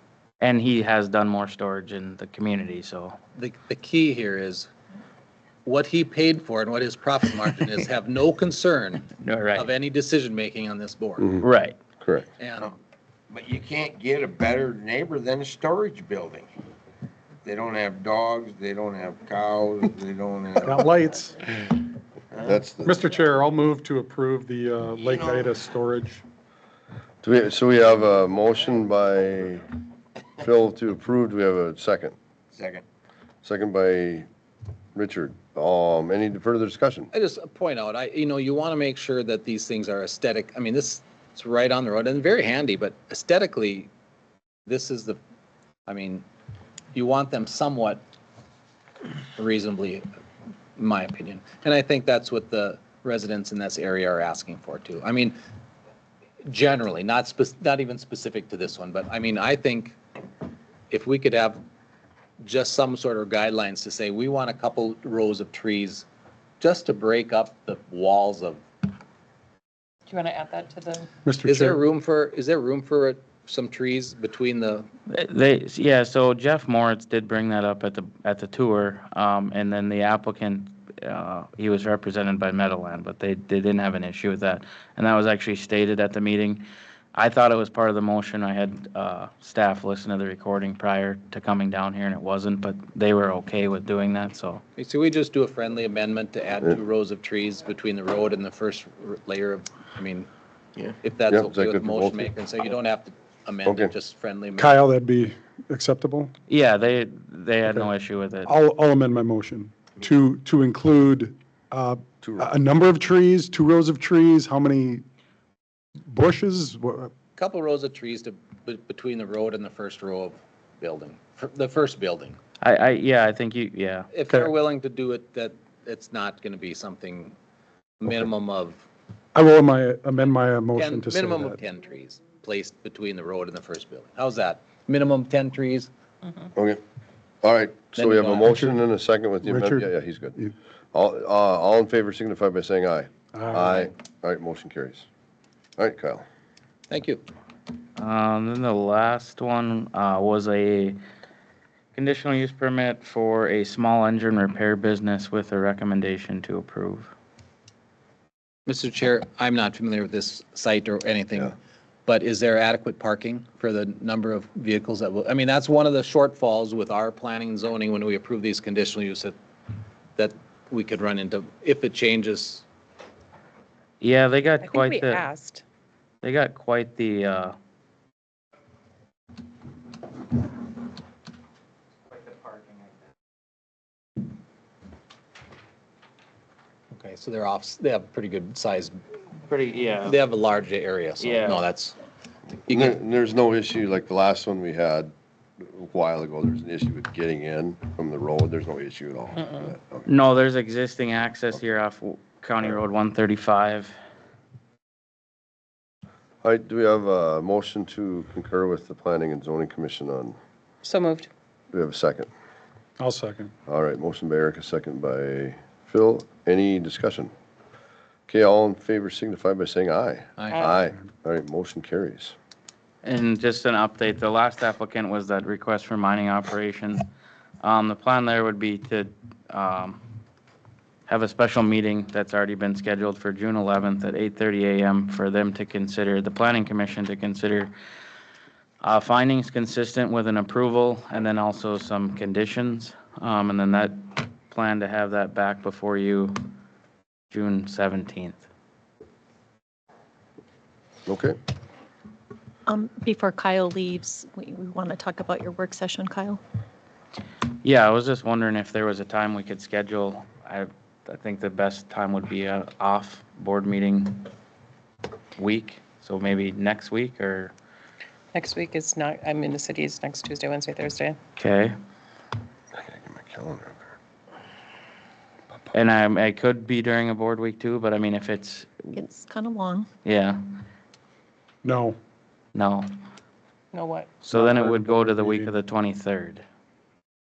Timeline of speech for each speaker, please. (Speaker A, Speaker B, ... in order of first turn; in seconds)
Speaker A: 0.4-3.2, 9.2-9.7, 11.4-11.8, 75.1-94.6, 106.5-108.5, 122.6-124.1, 148.0-151.0, 151.9-157.1, 174.0-175.3, 176.2-177.5, 189.5-190.2, 191.2-191.6, 200.1-203.9, 223.0-227.0, 227.6-230.0, 231.1-237.7, 238.8-246.4, 247.3-248.4, 257.6-264.3, 265.4-267.5, 271.4-271.8, 275.7-278.9, 280.0-280.4, 282.5-282.9, 284.3-286.4
Speaker B: 3.4-4.7, 5.7-11.4, 12.4-12.7, 37.1-43.9, 44.7-45.2, 45.9-46.2, 46.9-48.0, 49.4-50.0, 50.8-55.4, 56.5-60.0, 60.9-61.6, 62.4-66.0, 66.6-68.6, 71.4-74.9, 94.8-100.3, 101.0-104.8, 117.4-122.4, 124.1-127.3, 128.0-128.8, 130.8-135.9, 137.9-138.6, 146.9-147.2, 158.7-161.5, 162.1-169.3, 170.2-172.6, 186.9-188.9, 190.0-191.9, 192.7-193.0, 220.4-220.7
Speaker C: 12.0-12.2, 22.4-23.0, 27.2-29.7, 30.4-32.1, 33.4-34.3, 34.9-37.1, 101.3-102.3, 103.6-103.9, 112.2-112.5, 136.6-136.8, 137.4-140.4, 140.9-145.1, 145.8-146.2, 192.7-200.1, 206.4-210.3, 211.7-212.3, 213.7-217.3, 218.3-222.3, 251.1-251.4, 272.7-273.8
Speaker D: 13.3-16.5, 17.4-21.0, 25.1-25.5, 32.5-32.8
Speaker E: 20.6-21.4, 22.8-26.2, 71.2-71.8, 104.5-106.3, 108.4-115.0, 116.1-117.1, 129.3-131.6, 139.4-140.5, 143.3-143.9, 213.0-213.5, 281.6-282.0, 284.3-285.5
Speaker F: 70.1-71.1, 174.6-175.6, 210.8-211.3, 268.3-271.2, 283.7-284.2
Speaker G: 252.7-256.4, 278.9-279.9